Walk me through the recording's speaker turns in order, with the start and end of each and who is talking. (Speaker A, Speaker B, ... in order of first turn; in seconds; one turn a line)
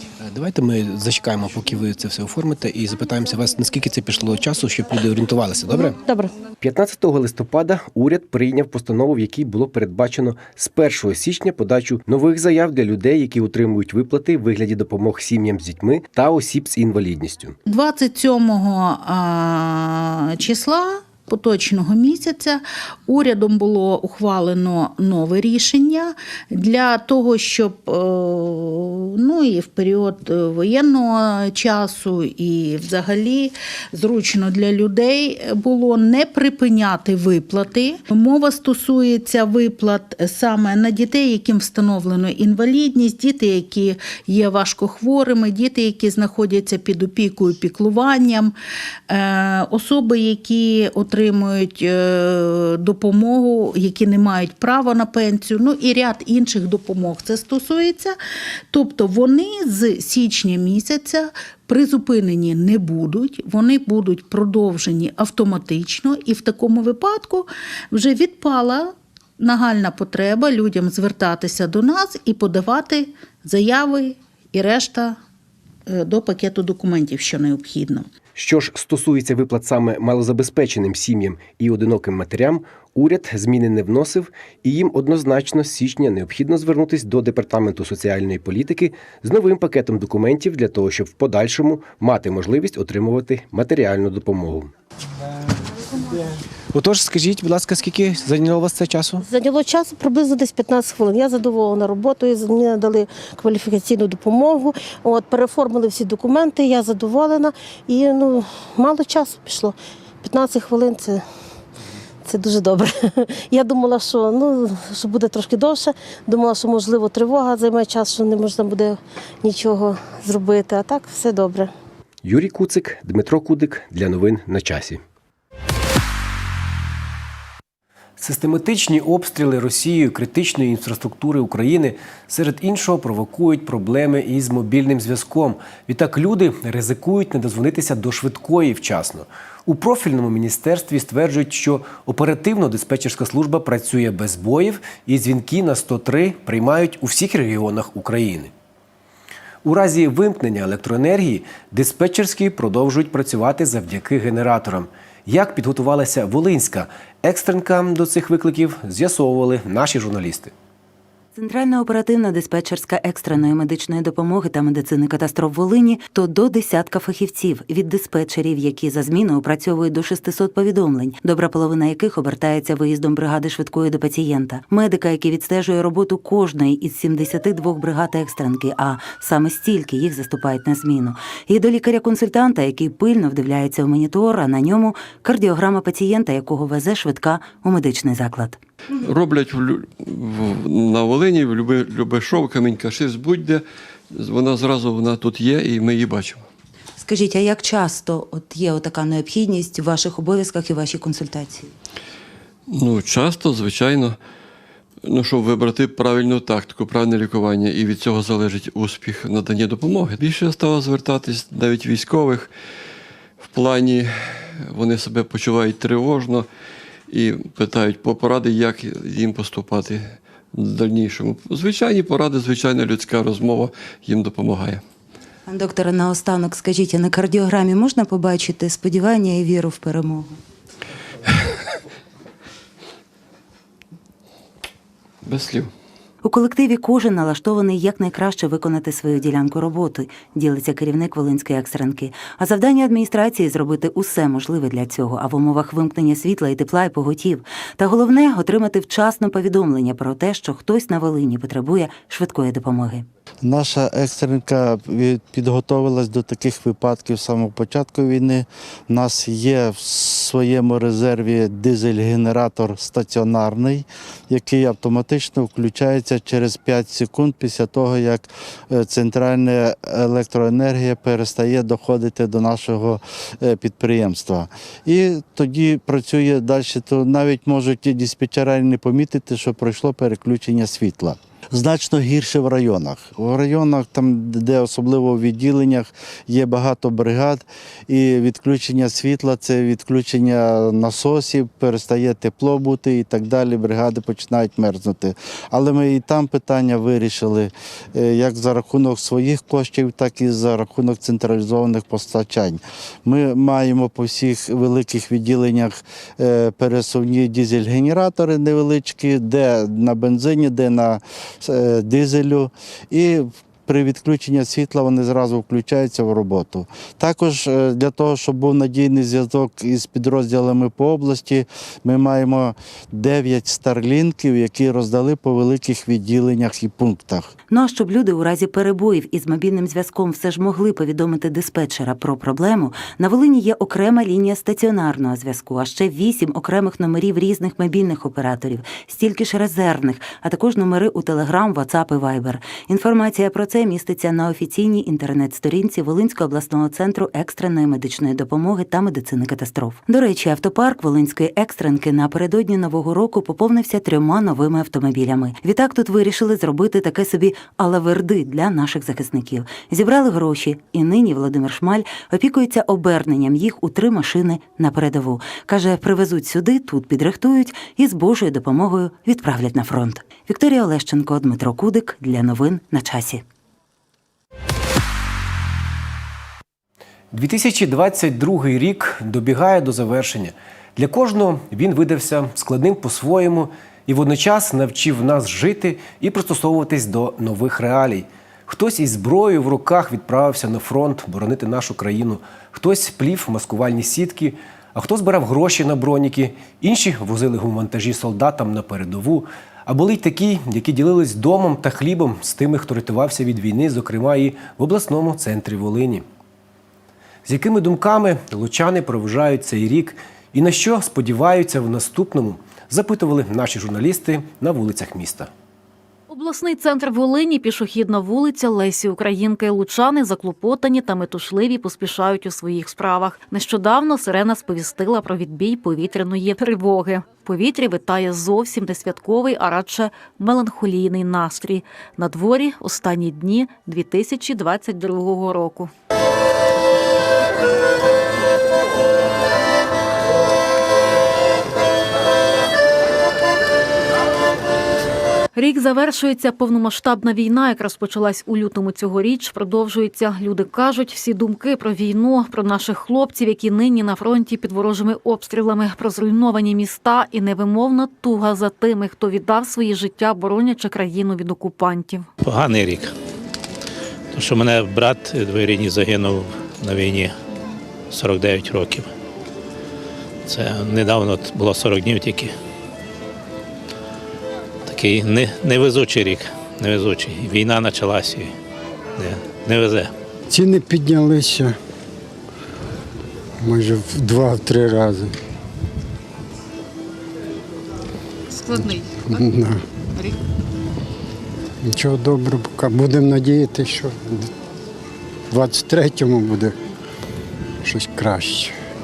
Speaker A: 0.2-6.0
Speaker B: 5.8-6.3
Speaker A: 6.6-17.6
Speaker C: 17.6-48.5
Speaker C: 49.1-58.2
Speaker C: 58.7-75.2
Speaker C: 75.9-78.1
Speaker A: 78.3-94.7
Speaker A: 96.7-99.2
Speaker B: 99.2-111.2
Speaker B: 112.2-121.7
Speaker A: 122.2-125.0
Speaker A: 128.2-148.5
Speaker A: 149.6-160.5
Speaker D: 161.3-188.6
Speaker E: 189.0-196.4
Speaker D: 197.0-201.7
Speaker E: 202.7-204.2
Speaker E: 205.0-212.5
Speaker E: 213.4-216.5
Speaker E: 217.1-224.8
Speaker D: 225.4-230.4
Speaker E: 235.2-235.7
Speaker D: 236.2-253.1
Speaker F: 253.4-327.3
Speaker D: 327.5-373.2
Speaker A: 377.1-406.0
Speaker A: 407.2-415.3
Speaker G: 416.1-435.7
Speaker G: 445.3-462.1
Speaker H: 462.2-462.9
Speaker H: 464.1-467.1
Speaker H: 467.9-468.9
Speaker H: 470.3-472.3
Speaker H: 474.6-478.3
Speaker H: 479.0-479.9
Speaker I: 480.3-481.5
Speaker I: 483.4-485.1
Speaker I: 488.5-489.6
Speaker I: 491.6-494.3
Speaker I: 495.3-496.6
Speaker I: 497.6-498.5